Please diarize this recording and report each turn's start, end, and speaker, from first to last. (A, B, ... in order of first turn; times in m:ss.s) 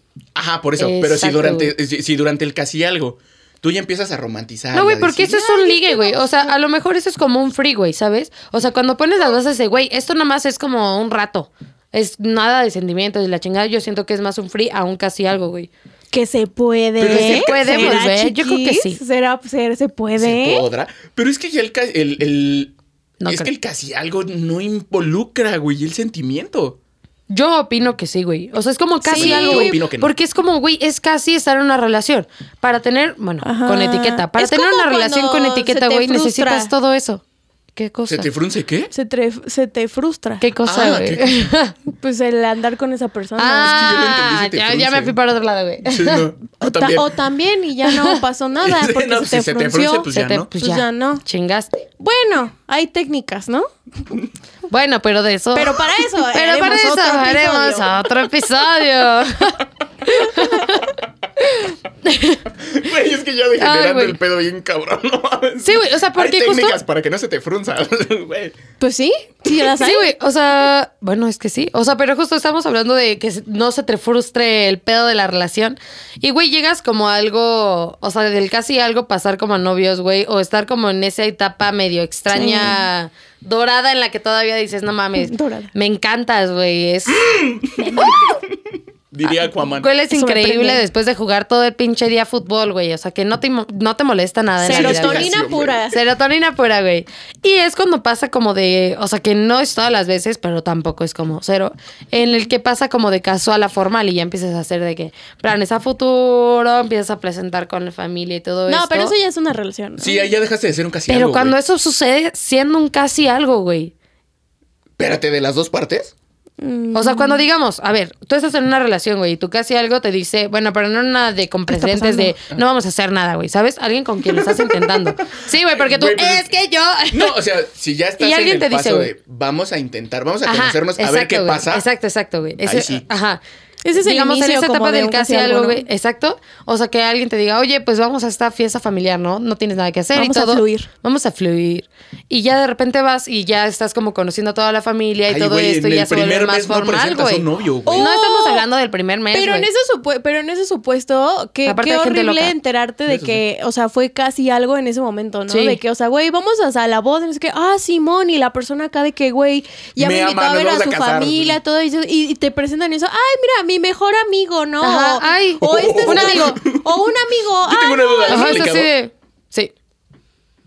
0:00.3-0:05.4 A
0:00.8-0:01.7 B
0:04.7-0:15.7 B
0:05.3-0:06.5 C
0:16.1-0:20.6 C
0:17.0-0:18.0 A
0:17.0-0:19.0 B
0:20.2-0:26.8 A
0:23.2-0:23.5 B
0:27.3-0:37.2 B
0:29.0-0:29.8 C
0:29.2-0:30.1 A
0:33.4-0:36.7 C
0:37.7-0:38.3 B
0:38.1-0:38.9 A
0:38.9-0:40.4 C
0:40.4-0:41.7 B
0:40.6-0:41.5 A
0:41.9-0:43.9 C
0:43.4-0:46.2 B
0:43.6-0:45.2 A
0:45.8-0:47.2 A
0:46.6-0:51.2 C
0:47.8-0:48.2 B
0:48.6-0:50.5 A
0:50.1-0:51.8 B
0:52.0-0:53.7 C
0:54.7-1:00.9 B
0:55.5-0:57.9 C
1:01.4-1:02.4 B
1:02.6-1:08.6 A
1:03.6-1:04.2 B
1:05.6-1:06.8 B
1:08.8-1:10.1 C
1:09.8-1:27.2 B
1:22.3-1:22.8 C
1:25.2-1:25.7 C
1:27.1-1:28.6 A
1:29.1-1:29.9 A
1:29.8-1:35.4 B
1:30.1-1:30.8 C
1:34.6-1:36.0 C
1:34.6-1:35.8 A
1:35.9-1:49.1 B
1:48.7-1:50.3 C
1:50.0-1:51.6 A
1:51.1-1:53.9 B
1:55.0-1:56.1 A
1:56.6-1:57.4 C
1:56.9-2:07.3 B
2:01.7-2:02.3 C
2:04.2-2:06.5 A
2:07.1-2:11.8 A
2:08.2-2:09.1 B
2:10.4-2:13.4 B
2:12.6-2:13.0 A
2:13.8-2:15.8 C
2:14.0-2:29.7 B
2:20.1-2:20.9 C
2:25.3-2:28.1 A
2:27.8-2:28.6 C
2:29.3-2:48.7 C
2:31.6-2:32.5 B
2:33.1-2:33.4 A
2:35.5-2:35.8 B
2:40.0-2:41.6 A
2:44.8-2:46.6 B
2:45.6-2:47.1 A
2:47.6-2:48.9 A
2:48.3-2:49.7 B